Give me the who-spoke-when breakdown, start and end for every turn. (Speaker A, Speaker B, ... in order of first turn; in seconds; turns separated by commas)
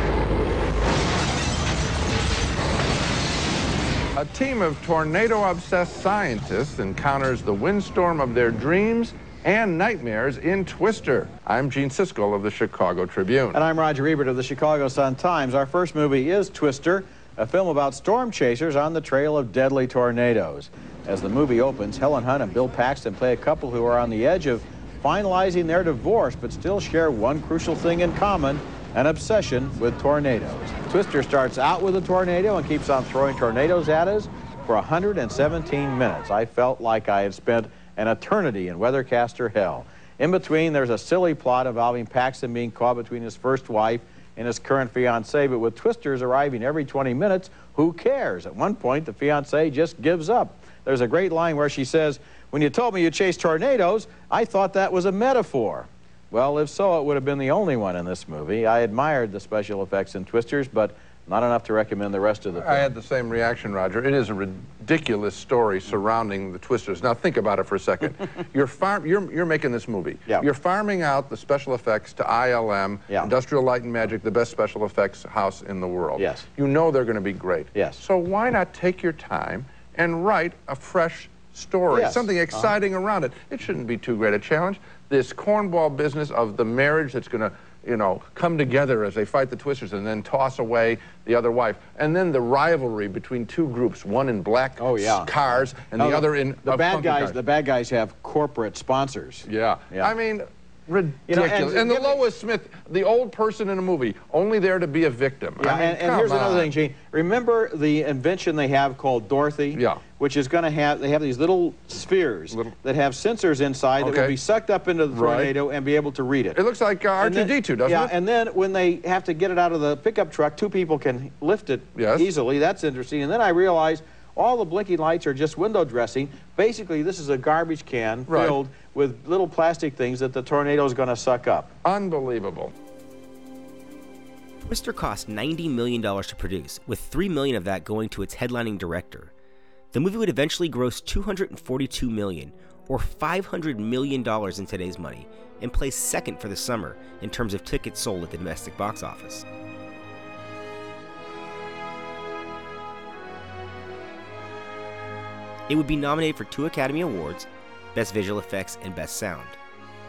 Speaker A: 4.2-13.6, Speaker B: 13.5-62.9, Speaker A: 62.5-97.4, Speaker B: 76.2-76.4, Speaker B: 77.7-78.0, Speaker B: 81.9-82.7, Speaker B: 94.8-100.1, Speaker A: 99.4-106.7, Speaker B: 101.3-102.2, Speaker B: 105.6-116.6, Speaker A: 109.7-110.0, Speaker A: 114.0-114.4, Speaker A: 115.1-115.5, Speaker A: 116.5-118.1, Speaker B: 117.2-131.7, Speaker A: 121.9-122.3, Speaker A: 128.3-128.6, Speaker A: 131.8-132.7, Speaker C: 134.6-139.3, Speaker C: 139.9-149.4, Speaker C: 155.7-159.6